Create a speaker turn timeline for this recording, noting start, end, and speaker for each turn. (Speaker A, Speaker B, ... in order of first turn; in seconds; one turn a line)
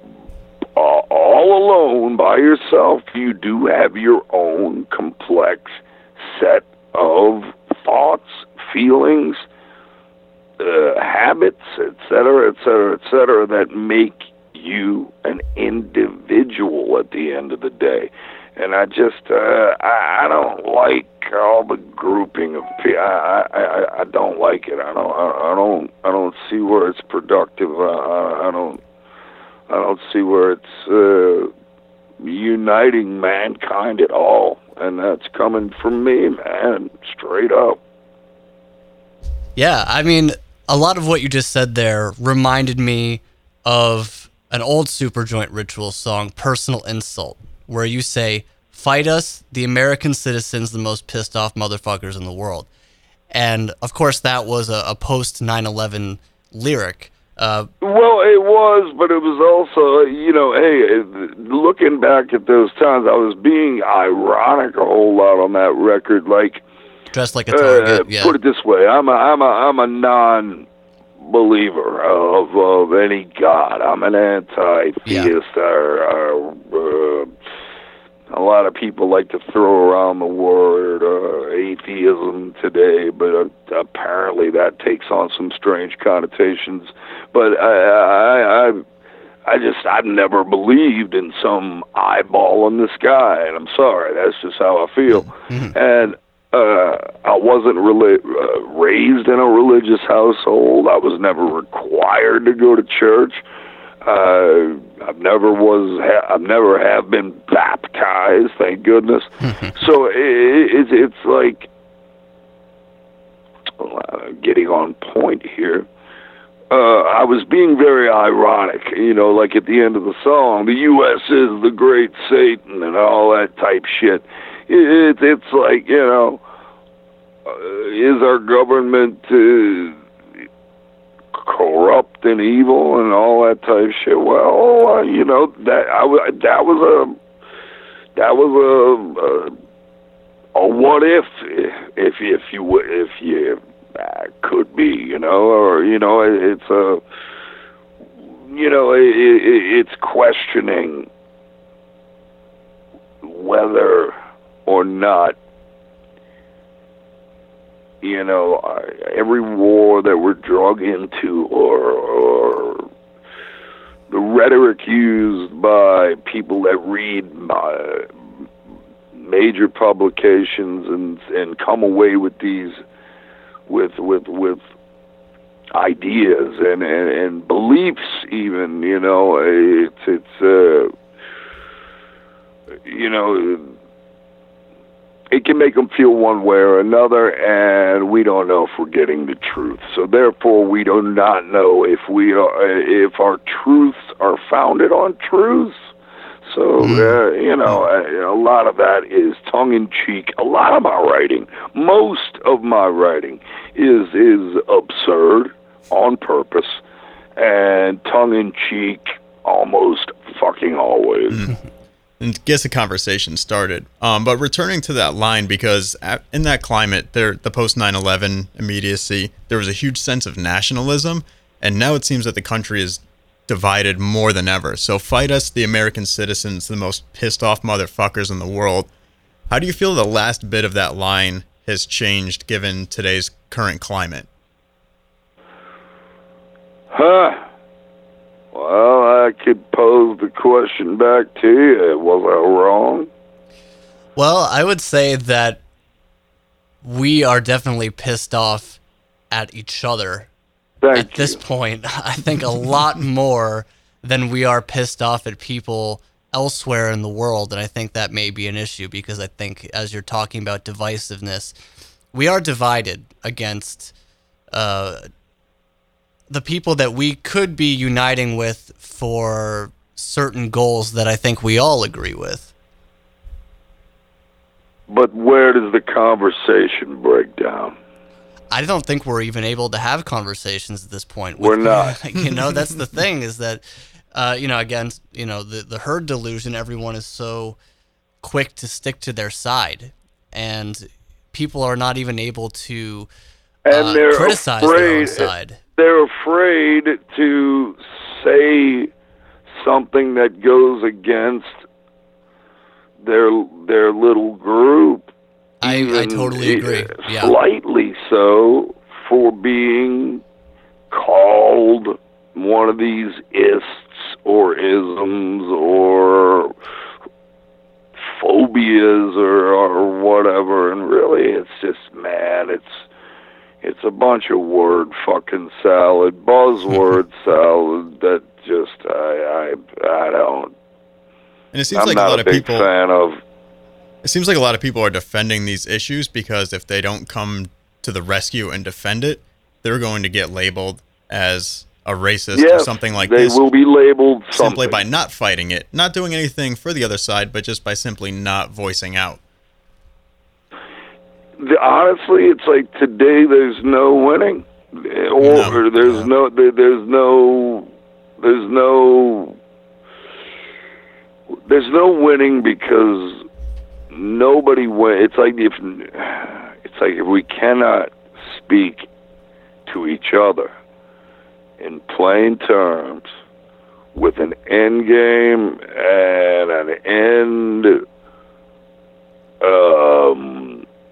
Speaker A: 0.8-9.4
Speaker A: 10.6-28.8
Speaker A: 29.7-31.5
Speaker A: 32.2-37.8
Speaker B: 39.5-52.7
Speaker B: 53.3-57.7
Speaker A: 57.8-66.6
Speaker B: 67.1-68.3
Speaker A: 67.5-70.7
Speaker A: 71.2-77.3
Speaker B: 75.0-75.3
Speaker A: 78.3-88.8
Speaker A: 89.5-103.4
Speaker B: 95.5-95.8
Speaker A: 104.0-111.7
Speaker B: 109.4-109.7
Speaker A: 113.8-115.8
Speaker A: 116.7-126.4
Speaker A: 127.5-130.0
Speaker A: 131.3-137.2
Speaker A: 138.2-139.5
Speaker A: 140.5-147.0
Speaker A: 148.4-151.1
Speaker A: 153.2-154.1
Speaker A: 154.7-155.4
Speaker A: 158.0-162.9
Speaker A: 164.1-168.1
Speaker A: 169.1-172.8
Speaker A: 173.7-174.6
Speaker A: 175.7-180.9
Speaker A: 182.8-183.7
Speaker A: 185.3-195.8
Speaker A: 196.4-206.8
Speaker B: 196.8-197.1
Speaker A: 207.4-211.5
Speaker C: 211.3-211.6
Speaker C: 212.2-228.9
Speaker C: 229.5-234.3
Speaker A: 236.9-237.4
Speaker A: 238.5-243.1
Speaker B: 244.2-245.6
Speaker B: 246.8-248.8
Speaker B: 249.3-250.3
Speaker A: 250.8-251.4
Speaker B: 250.9-261.5
Speaker B: 262.1-263.9
Speaker B: 264.5-265.1
Speaker B: 266.3-272.5
Speaker A: 274.9-277.8
Speaker B: 278.5-287.6
Speaker A: 281.4-282.0
Speaker C: 282.3-282.6
Speaker B: 288.2-293.1
Speaker A: 293.6-298.9
Speaker B: 293.7-295.6
Speaker A: 299.6-301.6
Speaker A: 303.0-305.1
Speaker B: 305.6-307.4
Speaker A: 305.6-310.2
Speaker A: 310.9-316.5
Speaker A: 318.0-322.8
Speaker A: 323.6-330.5
Speaker C: 331.5-332.7
Speaker A: 331.7-333.2
Speaker C: 334.0-343.4
Speaker A: 342.3-344.8
Speaker C: 344.3-349.2
Speaker A: 351.4-357.7
Speaker C: 355.2-355.6
Speaker B: 355.8-356.1
Speaker A: 358.2-359.4
Speaker A: 361.4-363.2
Speaker A: 363.9-368.9
Speaker A: 369.6-370.5
Speaker A: 371.6-373.1
Speaker A: 373.9-377.8
Speaker A: 379.4-380.6